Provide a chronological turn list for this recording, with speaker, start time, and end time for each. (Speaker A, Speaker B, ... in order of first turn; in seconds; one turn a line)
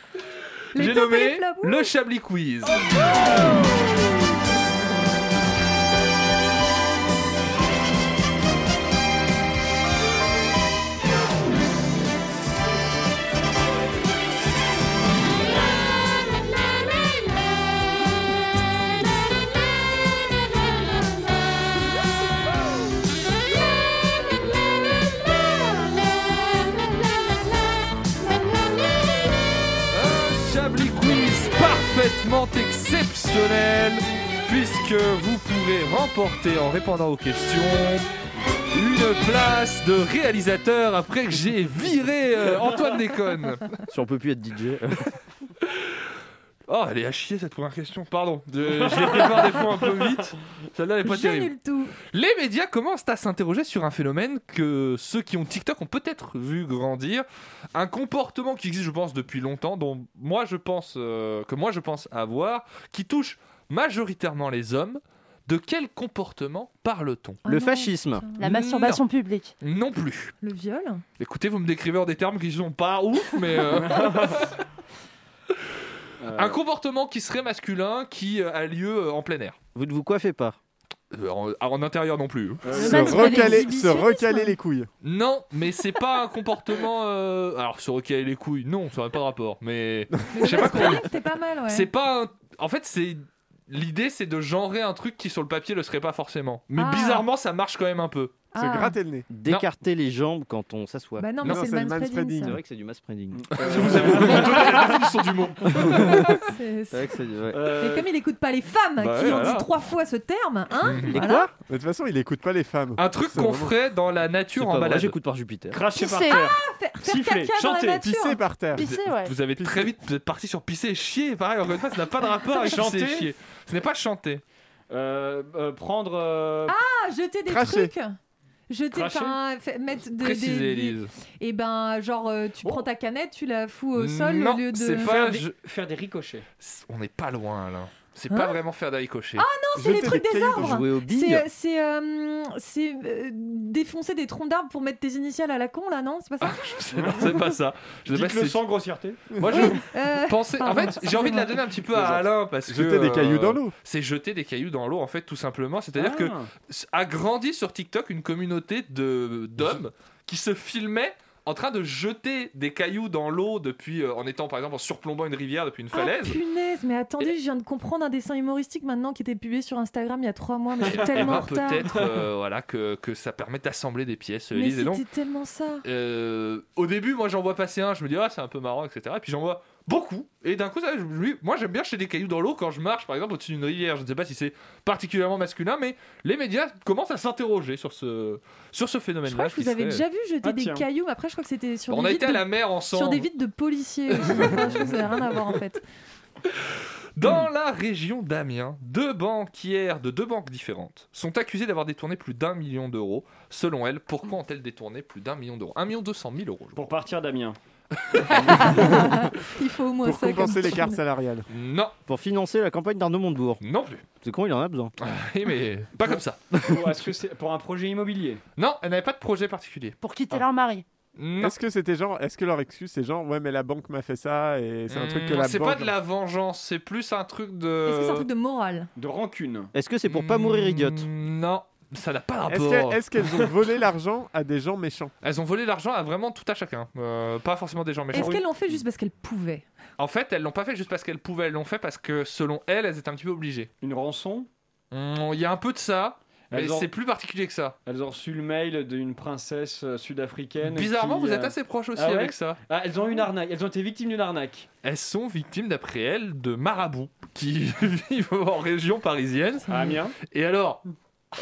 Speaker A: 0.8-1.9
Speaker B: 0.8-2.8
Speaker B: 29.9-38.1
Speaker B: 38.7-43.6
Speaker C: 43.9-45.0
Speaker B: 46.7-51.5
Speaker A: 51.0-52.0
Speaker B: 52.1-67.4
Speaker A: 67.5-68.4
Speaker C: 67.5-68.2
Speaker B: 68.4-69.0
Speaker D: 68.4-69.5
Speaker B: 69.6-70.3
Speaker A: 70.4-71.0
Speaker B: 71.2-74.6
Speaker E: 73.7-74.5
Speaker E: 76.2-76.6
Speaker B: 76.3-79.6
Speaker C: 79.8-80.6
Speaker B: 81.1-82.7
Speaker E: 82.6-83.5
Speaker A: 82.8-84.5
Speaker F: 82.8-84.9
Speaker D: 82.8-83.7
Speaker B: 85.0-91.1
Speaker F: 90.2-90.9
Speaker A: 90.3-91.9
Speaker B: 91.7-98.4
Speaker A: 96.8-97.3
Speaker A: 98.5-99.0
Speaker F: 98.6-99.3
Speaker C: 99.3-101.3
Speaker A: 101.2-102.6
Speaker F: 101.4-102.6
Speaker C: 102.4-104.3
Speaker E: 103.3-105.0
Speaker B: 103.6-106.4
Speaker A: 106.2-107.1
Speaker C: 106.9-107.7
Speaker E: 107.5-108.1
Speaker A: 107.8-111.5
Speaker B: 109.0-109.7
Speaker B: 110.8-111.2
Speaker C: 111.1-111.5
Speaker F: 111.6-113.7
Speaker B: 113.0-115.2
Speaker C: 114.5-115.8
Speaker E: 115.7-118.0
Speaker A: 116.0-118.4
Speaker F: 118.0-118.9
Speaker D: 118.7-119.3
Speaker B: 118.8-124.4
Speaker F: 119.6-119.9
Speaker E: 122.6-123.3
Speaker E: 124.9-126.8
Speaker A: 126.7-128.2
Speaker F: 127.5-127.9
Speaker A: 128.7-135.1
Speaker E: 128.9-129.4
Speaker B: 130.2-131.1
Speaker E: 132.6-132.9
Speaker B: 134.0-135.5
Speaker E: 135.0-136.4
Speaker B: 136.6-139.5
Speaker A: 138.3-138.6
Speaker A: 139.4-146.7
Speaker F: 139.8-140.8
Speaker C: 140.6-141.5
Speaker B: 146.4-148.6
Speaker E: 146.9-147.4
Speaker E: 148.1-149.2
Speaker B: 149.3-166.4
Speaker A: 149.5-151.6
Speaker E: 151.8-152.2
Speaker F: 152.7-153.7
Speaker E: 155.9-156.5
Speaker A: 165.9-172.0
Speaker B: 170.8-175.1
Speaker E: 171.0-171.5
Speaker A: 174.5-175.8
Speaker B: 175.8-190.1
Speaker A: 189.3-195.8
Speaker E: 190.4-190.9
Speaker B: 191.9-193.3
Speaker B: 194.3-194.9
Speaker B: 197.2-206.9
Speaker E: 206.8-207.6
Speaker B: 208.0-208.8
Speaker A: 208.3-211.0
Speaker E: 208.3-209.0
Speaker F: 210.0-211.5
Speaker B: 211.5-211.9
Speaker C: 212.1-213.6
Speaker B: 213.6-214.0
Speaker C: 214.2-214.9
Speaker B: 215.0-216.5
Speaker E: 216.6-218.4
Speaker B: 218.6-220.0
Speaker D: 220.0-220.8
Speaker B: 221.2-221.6
Speaker F: 221.4-225.9
Speaker B: 224.9-228.3
Speaker A: 227.9-228.9
Speaker E: 229.0-229.7
Speaker C: 229.7-231.1
Speaker B: 230.1-233.0
Speaker F: 232.5-235.1
Speaker B: 235.2-238.4
Speaker A: 238.1-239.7
Speaker E: 238.1-238.8
Speaker B: 240.0-243.7
Speaker E: 243.8-244.5
Speaker B: 244.9-247.8
Speaker E: 246.5-246.9
Speaker E: 247.9-254.7
Speaker B: 250.7-252.6
Speaker B: 254.8-260.8
Speaker E: 259.7-260.2